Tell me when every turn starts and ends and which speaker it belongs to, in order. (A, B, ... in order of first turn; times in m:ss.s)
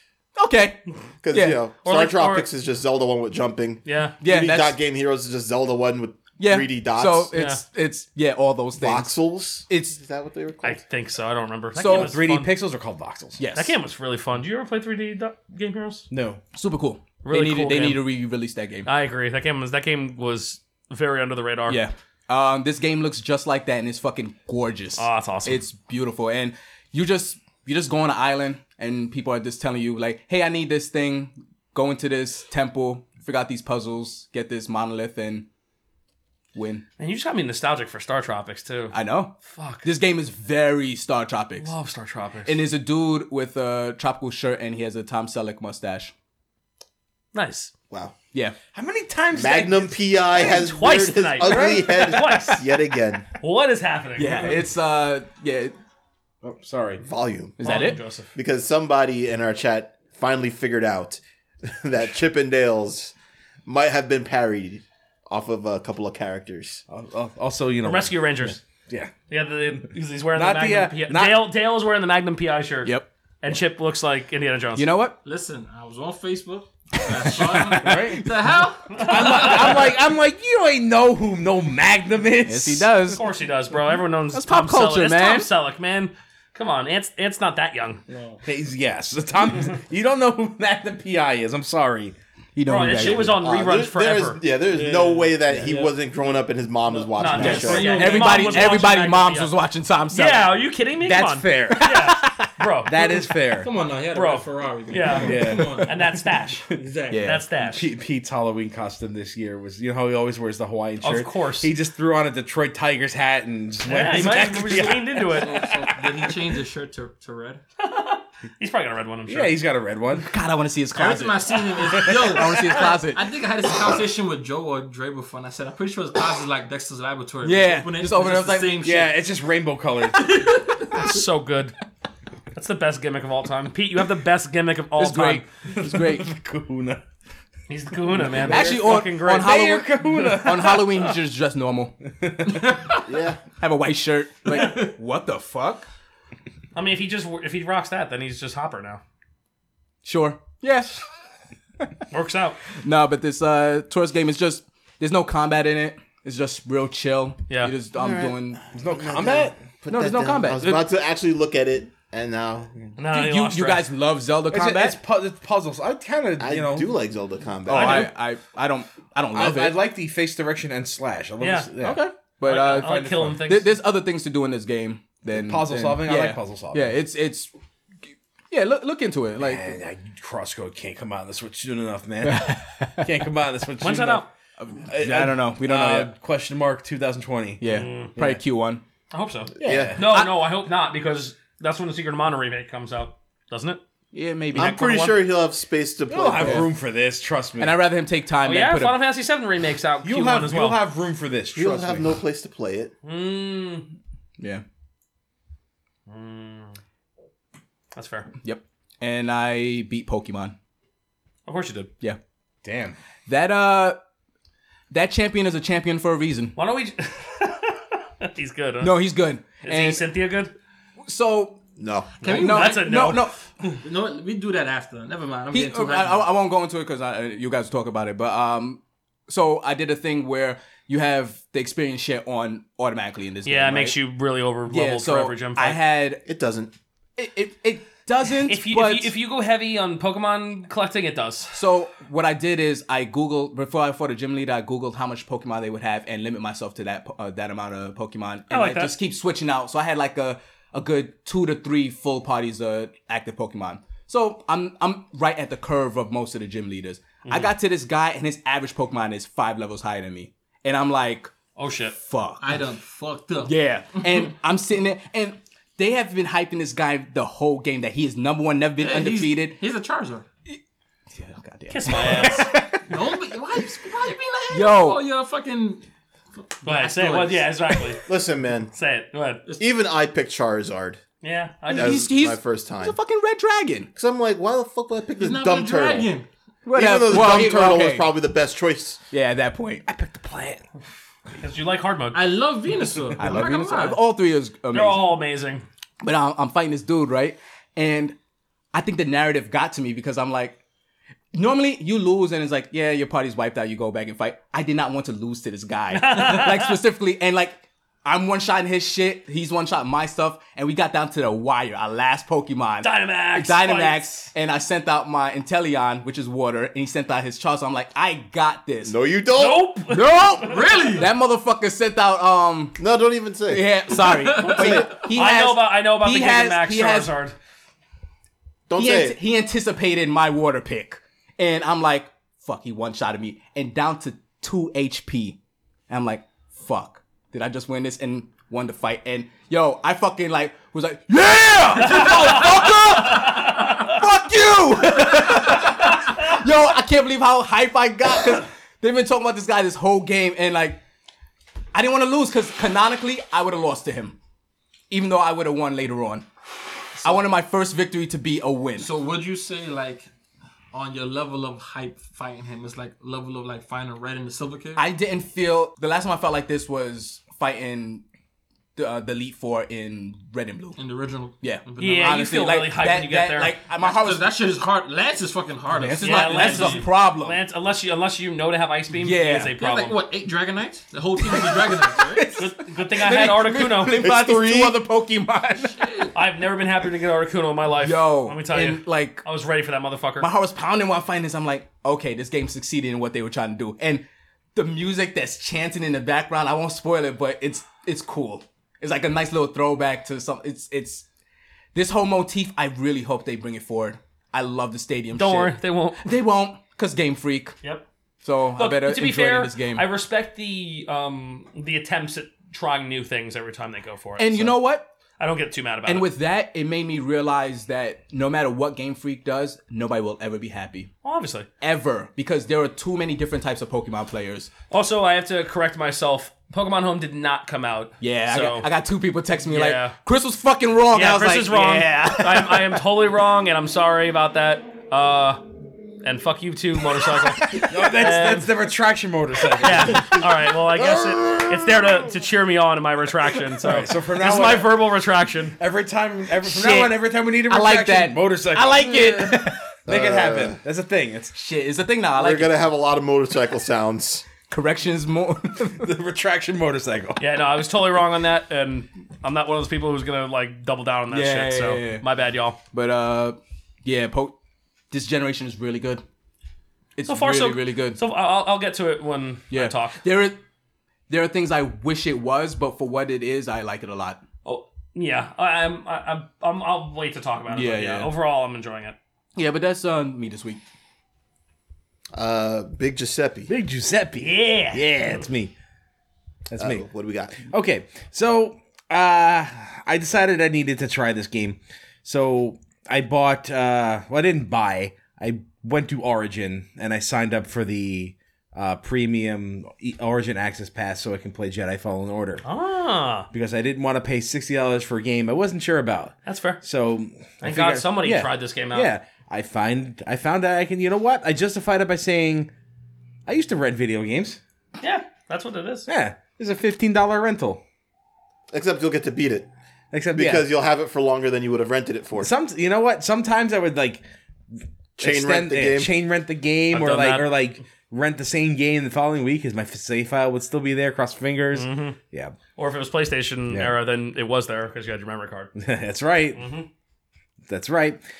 0:00.4-0:01.6 A
0:01.2-0:07.3 B
0:01.8-0:02.5 C
0:03.8-0:04.2 C
0:04.2-0:04.8 A
0:06.4-0:09.9 A
0:07.3-0:07.6 C
0:08.8-0:10.8 B
0:10.6-0:12.5 C
0:11.7-0:12.2 A
0:11.8-0:13.4 D
0:13.4-0:13.8 A
0:13.5-0:16.1 C
0:16.1-0:16.4 D
0:16.5-0:18.9 A
0:17.2-0:18.0 C
0:18.8-0:21.8 C
0:21.7-0:35.5 A
0:25.0-0:25.6 C
0:36.5-0:36.8 A
0:37.0-0:39.8 C
0:38.9-0:41.7 A
0:41.6-0:42.6 C
0:42.4-0:46.1 A
0:47.3-0:47.7 C
0:48.7-0:50.0 D
0:49.3-0:53.2 B
0:50.3-0:52.6 C
0:51.5-0:52.0 D
0:53.4-0:54.6 C
0:54.2-0:55.7 A
0:56.4-0:57.0 D
0:57.0-0:57.6 B
0:57.6-0:58.0 A
0:57.6-0:58.3 C
0:58.3-1:03.1 B
1:03.6-1:06.8 B
1:06.9-1:09.1 D
1:07.8-1:08.6 C
1:09.3-1:14.9 C
1:10.3-1:11.5 D
1:14.8-1:15.2 A
1:15.2-1:19.9 E
1:17.0-1:18.6 A
1:17.6-1:18.3 D
1:18.9-1:19.9 C
1:19.0-1:22.9 D
1:22.4-1:23.2 A
1:23.1-1:28.0 C
1:24.3-1:25.5 A
1:28.1-1:28.4 E
1:28.4-1:32.1 D
1:32.6-1:33.4 A
1:32.6-1:34.4 C
1:33.2-1:38.1 B
1:34.7-1:35.8 E
1:36.9-1:38.8 E
1:37.2-1:39.5 C
1:37.3-1:40.5 A
1:40.1-1:43.2 C
1:41.0-1:42.3 D
1:41.8-1:42.4 A
1:42.8-1:43.7 D
1:43.6-1:46.0 E
1:44.1-1:46.7 C
1:45.2-1:45.8 D
1:45.5-1:45.8 A
1:46.7-1:47.3 E
1:47.1-1:47.4 A
1:47.2-1:47.9 C
1:47.6-1:56.4 D
1:51.0-1:51.7 C
1:53.9-1:55.7 C
1:55.3-1:57.6 E
1:57.8-1:59.5 C
1:59.3-2:00.3 D
2:00.1-2:03.3 A
2:00.9-2:09.1 E
2:01.9-2:02.4 D
2:07.4-2:08.8 A
2:08.8-2:10.4 D
2:10.2-2:11.1 E
2:10.9-2:11.7 C
2:12.5-2:15.5 C
2:15.0-2:16.3 A
2:15.7-2:17.0 D
2:17.7-2:20.8 C
2:18.1-2:20.9 D
2:18.4-2:21.9 A
2:22.2-2:22.8 D
2:23.0-2:23.4 B
2:23.6-2:25.9 A
2:24.5-2:24.9 C
2:26.7-2:29.0 C
2:30.0-2:31.0 A
2:32.1-2:32.6 C
2:32.8-2:38.6 A
2:37.5-2:37.7 C
2:38.0-2:42.9 B
2:38.7-2:39.6 D
2:39.9-2:40.8 A
2:43.0-2:43.8 C
2:43.1-2:45.0 A
2:44.5-2:46.9 D
2:46.4-2:48.1 B
2:47.6-2:49.8 A
2:47.7-2:48.1 C
2:49.3-2:52.0 D
2:51.4-2:51.7 C
2:51.8-2:57.5 A
2:52.4-2:53.7 C
2:52.6-2:53.4 D
2:55.3-2:56.9 D
2:58.5-2:59.7 A
2:59.4-3:04.2 D
3:02.2-3:03.1 A
3:03.8-3:04.3 C
3:04.6-3:06.1 A
3:04.9-3:08.4 D
3:07.6-3:08.8 A
3:07.7-3:08.1 C
3:09.1-3:13.8 C
3:09.6-3:10.4 A
3:09.6-3:10.0 B
3:09.6-3:10.0 D
3:14.1-3:14.8 A
3:14.5-3:15.2 C
3:14.5-3:16.7 B
3:16.1-3:17.8 D
3:16.4-3:16.6 A
3:17.6-3:19.0 A
3:18.4-3:20.8 C
3:20.0-3:22.1 D
3:21.5-3:22.9 B
3:23.0-3:23.9 C
3:26.1-3:26.8 C
3:27.9-3:28.3 C
3:28.4-3:30.5 A
3:31.4-3:31.9 C
3:32.6-3:33.0 D
3:33.3-3:34.0 A
3:34.9-3:36.6 A
3:36.6-3:38.9 C
3:38.8-3:40.1 A
3:39.6-3:40.5 C
3:41.0-3:41.6 A
3:41.8-3:42.2 B
3:42.2-3:43.1 E
3:42.2-3:43.3 C
3:42.2-3:43.4 A
3:43.7-3:46.3 E
3:45.5-3:54.0 A
3:53.4-3:55.8 C
3:54.7-3:56.2 A
3:56.2-3:56.7 B
3:57.2-3:59.1 A
3:58.4-4:01.6 C
4:01.5-4:21.3 A
4:08.5-4:08.9 C
4:17.2-4:17.5 C
4:21.6-4:22.0 C
4:22.0-4:22.6 A
4:22.4-4:23.5 E
4:23.4-4:29.6 A
4:28.8-4:30.3 E
4:31.1-4:33.2 A
4:31.7-4:32.5 C
4:32.8-4:35.8 E
4:34.5-4:35.0 A
4:36.5-4:38.0 E
4:36.6-4:38.0 C
4:38.0-4:38.7 B
4:38.7-4:39.4 C
4:39.6-4:41.0 B
4:41.2-4:42.0 C
4:41.7-4:43.9 A
4:41.7-4:43.0 B
4:44.0-4:46.1 B
4:45.2-4:46.3 E
4:46.6-4:48.1 A
4:46.7-4:49.0 B
4:49.1-4:49.8 A
4:49.8-4:50.6 D
4:51.4-4:52.2 C
4:52.1-4:54.0 E
4:53.2-4:55.1 A
4:54.7-4:55.6 C
4:56.0-4:58.1 A
4:58.7-5:00.6 A
5:01.3-5:19.0 A
5:05.9-5:06.7 C
5:12.8-5:14.1 C
5:18.8-5:19.7 B
5:19.4-5:20.3 C
5:19.9-5:22.8 A
5:20.4-5:21.1 E
5:22.8-5:23.7 B
5:23.5-5:27.1 A
5:24.0-5:25.0 E
5:24.5-5:24.8 B
5:24.5-5:27.3 C
5:28.7-5:29.2 B
5:28.7-5:35.4 A
5:35.9-5:50.8 A
5:41.8-5:44.0 C
5:51.7-5:54.2 A
5:54.9-5:56.2 A
5:57.0-5:58.9 A
5:58.8-6:00.1 E
6:00.7-6:04.8 E
6:04.7-6:08.0 A
6:08.8-6:10.8 A
6:10.8-6:11.9 E
6:11.4-6:14.3 A
6:11.8-6:13.6 C
6:13.8-6:16.9 E
6:15.7-6:17.4 A
6:16.0-6:20.0 C
6:19.0-6:19.5 A
6:19.6-6:22.4 E
6:21.2-6:26.1 A
6:22.4-6:24.0 C
6:23.9-6:24.8 B
6:25.8-6:26.1 E
6:26.1-6:30.3 C
6:27.8-6:29.2 A
6:30.2-6:41.1 A
6:41.7-6:47.5 A
6:45.1-6:46.1 C
6:48.2-6:49.9 A
6:48.6-6:54.6 C
6:54.2-6:54.9 A
6:55.2-6:56.1 C
6:55.8-7:00.9 A
7:01.0-7:01.5 C
7:01.6-7:04.5 A
7:04.7-7:08.7 C
7:08.0-7:12.8 A
7:09.4-7:10.0 C
7:10.9-7:15.4 C
7:16.0-7:18.5 C
7:17.3-7:17.9 A
7:17.7-7:20.2 D
7:19.6-7:25.6 C
7:20.7-7:21.9 B
7:23.6-7:24.7 D
7:25.6-7:31.3 D
7:26.4-7:29.6 A
7:29.9-7:30.6 B
7:31.3-7:32.6 A
7:32.2-7:34.3 B
7:34.5-7:35.9 A
7:35.7-7:37.2 D
7:37.2-7:42.6 C
7:41.1-7:42.0 A
7:42.7-7:44.4 A
7:44.9-7:46.0 A
7:47.0-7:48.0 A
7:47.0-7:50.0 C
7:49.5-7:50.4 A
7:51.1-7:54.2 A
7:54.4-7:59.0 C
7:57.5-7:58.1 A
7:59.4-8:00.6 A
8:02.1-8:03.5 B
8:03.5-8:05.5 D
8:04.2-8:05.2 C
8:06.5-8:22.4 D
8:06.6-8:07.4 B
8:22.4-8:23.3 C
8:23.3-8:32.5 D
8:26.2-8:26.6 C
8:27.4-8:28.9 C
8:33.3-8:34.4 D
8:34.8-8:35.9 C
8:35.9-8:37.6 D
8:38.5-8:39.5 B
8:39.9-8:40.5 D
8:40.1-8:42.3 B
8:42.2-8:44.0 D
8:45.0-8:52.4 D
8:45.0-8:45.9 B
8:46.7-8:47.3 C
8:51.5-8:52.0 C
8:52.6-8:55.5 C
8:53.5-8:53.7 D
8:55.6-8:56.5 D
8:56.3-8:56.7 C
8:57.5-8:58.0 D